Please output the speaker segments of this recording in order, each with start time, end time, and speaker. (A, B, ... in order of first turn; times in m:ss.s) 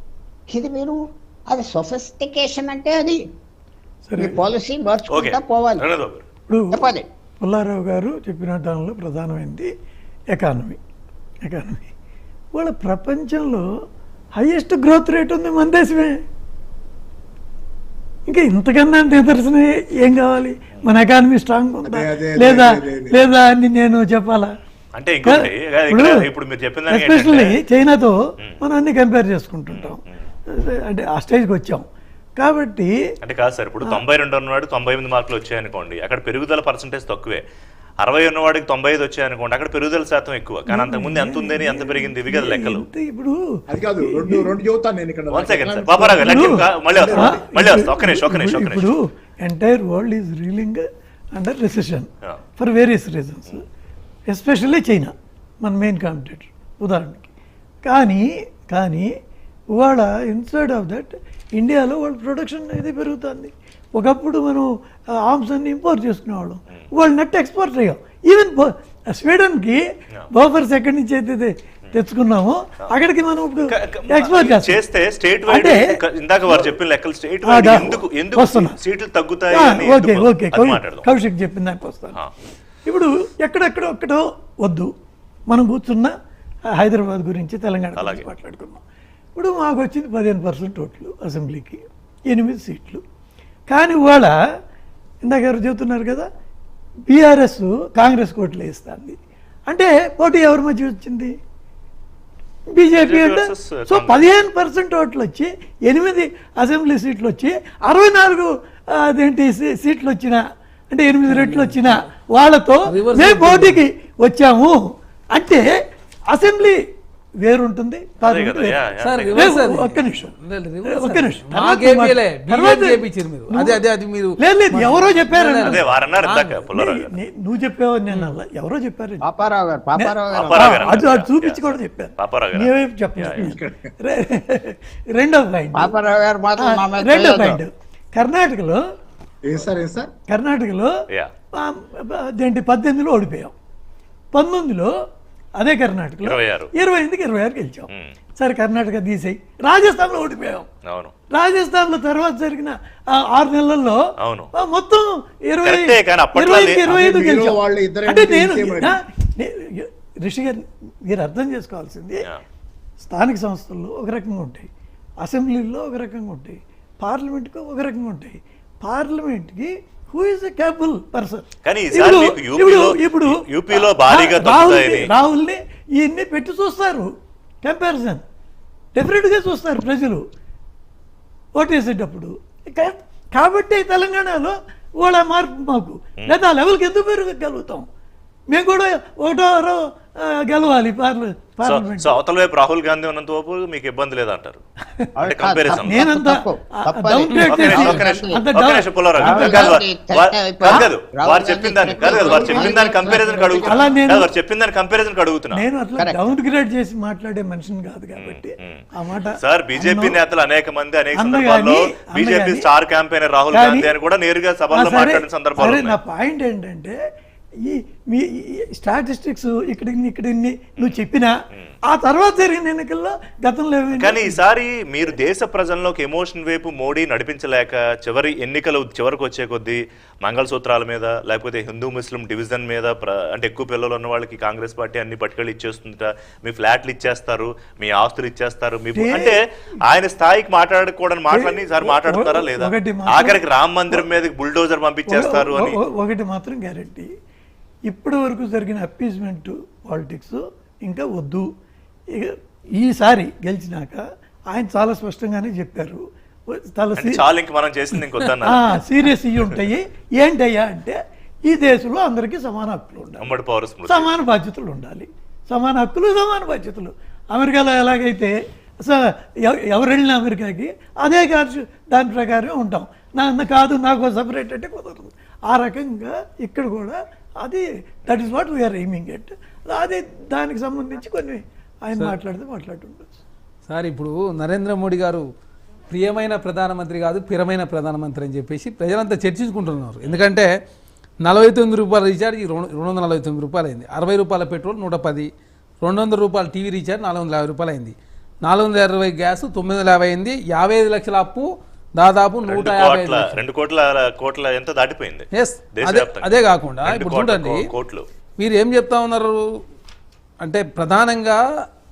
0:00.5-0:03.2 A
0:04.1-0:04.4 B
0:04.2-0:05.8 A
0:05.1-0:06.2 C
0:06.5-0:09.7 B
0:06.7-0:07.0 A
0:10.3-0:10.8 B
0:11.4-0:11.9 B
0:12.5-0:13.6 B
0:14.4-0:16.2 B
0:18.3-0:24.5 B
0:21.8-0:23.3 D
0:25.0-0:27.6 C
0:25.2-0:26.2 B
0:26.9-0:31.9 B
0:29.7-0:30.2 C
0:32.4-0:32.9 B
0:33.2-0:37.4 C
0:38.0-0:42.8 C
0:40.7-0:43.4 B
0:43.7-0:46.4 D
0:44.0-0:44.5 B
0:45.3-0:48.9 C
0:46.2-0:53.6 B
0:46.9-0:47.4 D
0:54.3-0:57.3 B
0:57.8-0:59.1 B
0:59.7-1:04.7 B
1:05.2-1:14.8 B
1:13.7-1:21.1 C
1:15.5-1:16.8 B
1:17.4-1:18.8 B
1:19.5-1:22.2 B
1:22.8-1:24.9 B
1:25.5-1:26.1 B
1:26.8-1:28.8 B
1:28.0-1:28.2 C
1:29.4-1:33.0 B
1:33.7-1:34.4 B
1:35.2-1:36.3 B
1:37.1-1:39.2 B
1:39.7-1:41.3 B
1:42.7-1:54.8 B
1:43.0-1:44.3 C
1:51.3-1:51.9 E
1:52.9-1:53.8 E
1:55.3-1:56.8 B
1:57.4-1:58.8 B
1:58.2-1:59.6 C
1:59.0-2:06.6 E
1:59.3-2:00.3 B
2:00.8-2:03.8 B
2:04.4-2:05.8 B
2:05.6-2:07.2 C
2:06.7-2:09.2 B
2:09.2-2:10.8 A
2:10.0-2:16.0 B
2:10.3-2:13.6 C
2:13.4-2:13.9 D
2:15.8-2:17.6 A
2:16.6-2:18.8 B
2:19.4-2:20.1 D
2:20.3-2:20.9 B
2:21.5-2:23.5 B
2:24.3-2:24.9 B
2:25.6-2:30.7 B
2:26.2-2:26.7 C
2:30.8-2:31.1 C
2:31.3-2:42.3 B
2:34.2-2:34.5 C
2:35.6-2:36.9 C
2:36.9-2:39.0 D
2:43.0-2:44.7 B
2:45.2-2:57.1 B
2:51.6-2:55.1 C
2:57.6-2:58.2 B
2:58.9-3:00.2 B
3:01.6-3:07.8 B
3:08.5-3:12.2 B
3:11.6-3:14.6 C
3:15.2-3:18.4 A
3:15.2-3:16.1 C
3:15.7-3:19.8 B
3:17.4-3:25.6 C
3:19.2-3:23.9 A
3:22.0-3:22.7 B
3:23.6-3:24.3 B
3:25.5-3:30.2 B
3:26.0-3:26.3 A
3:28.2-3:28.8 C
3:29.4-3:36.0 C
3:31.1-3:32.7 B
3:33.5-3:33.9 B
3:34.7-3:37.0 B
3:37.6-3:41.3 B
3:41.9-3:44.4 B
3:43.9-4:05.8 C
3:58.9-3:59.4 B
4:01.3-4:04.0 B
4:05.1-4:07.1 B
4:07.9-4:11.5 B
4:12.1-4:17.2 B
4:17.0-4:18.8 C
4:18.4-4:23.3 B
4:23.2-4:24.1 C
4:23.9-4:43.1 B
4:43.7-4:45.2 E
4:45.9-4:50.5 E
4:51.2-4:55.3 E
4:55.8-5:03.4 E
5:02.4-5:08.1 C
5:05.3-5:07.6 E
5:08.4-5:09.4 E
5:10.4-5:11.4 E